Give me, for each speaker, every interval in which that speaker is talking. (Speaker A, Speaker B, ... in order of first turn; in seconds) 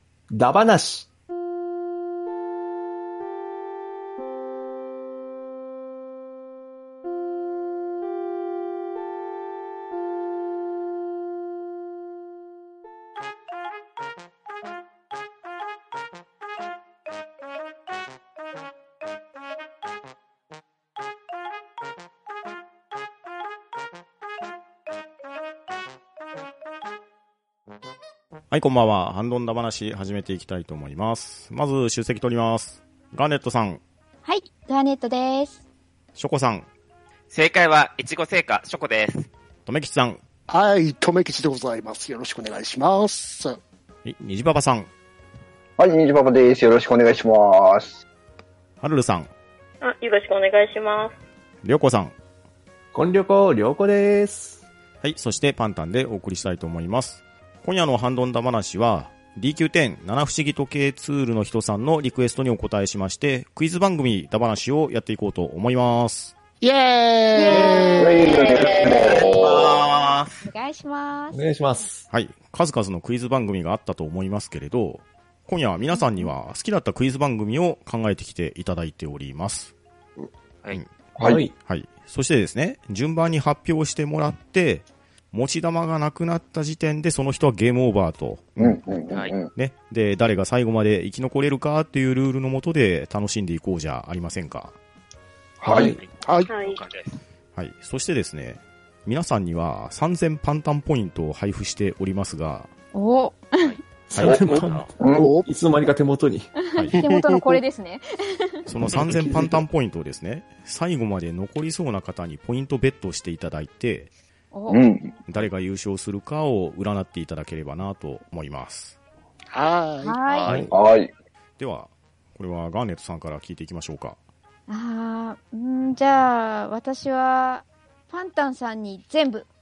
Speaker A: 0.3-1.1, 52.9-54.6, 71.3-72.1, 81.2-81.6, 95.7-96.0, 104.1-106.6, 109.0-109.6, 120.5-120.8
Speaker B: 28.5-33.8, 36.2-36.7, 39.7-40.2, 44.0-44.9, 48.8-49.3, 51.6-52.1, 55.0-66.3, 72.1-79.7, 81.5-88.8, 89.5-94.7, 97.5-102.7, 108.7-114.1, 115.3-119.0, 121.6-124.2
Speaker C: 34.2-35.6, 67.3-68.2, 70.4-71.5, 75.9-76.3, 102.9-103.8, 106.7-108.0, 114.5-114.9, 120.0-120.6, 124.7-129.5
Speaker D: 37.3-39.3, 69.3-70.4, 89.1-89.4, 95.8-96.1, 96.6-97.2, 104.4-104.9
Speaker E: 40.5-43.6, 66.6-68.4, 96.2-96.6, 105.1-105.5, 107.0-107.6, 119.5-120.6
Speaker F: 45.8-48.0, 67.5-69.7, 88.6-89.5, 95.6-96.0, 105.0-105.2, 114.7-115.1, 120.7-121.1
Speaker G: 49.8-51.1, 68.2-69.3, 96.5-96.8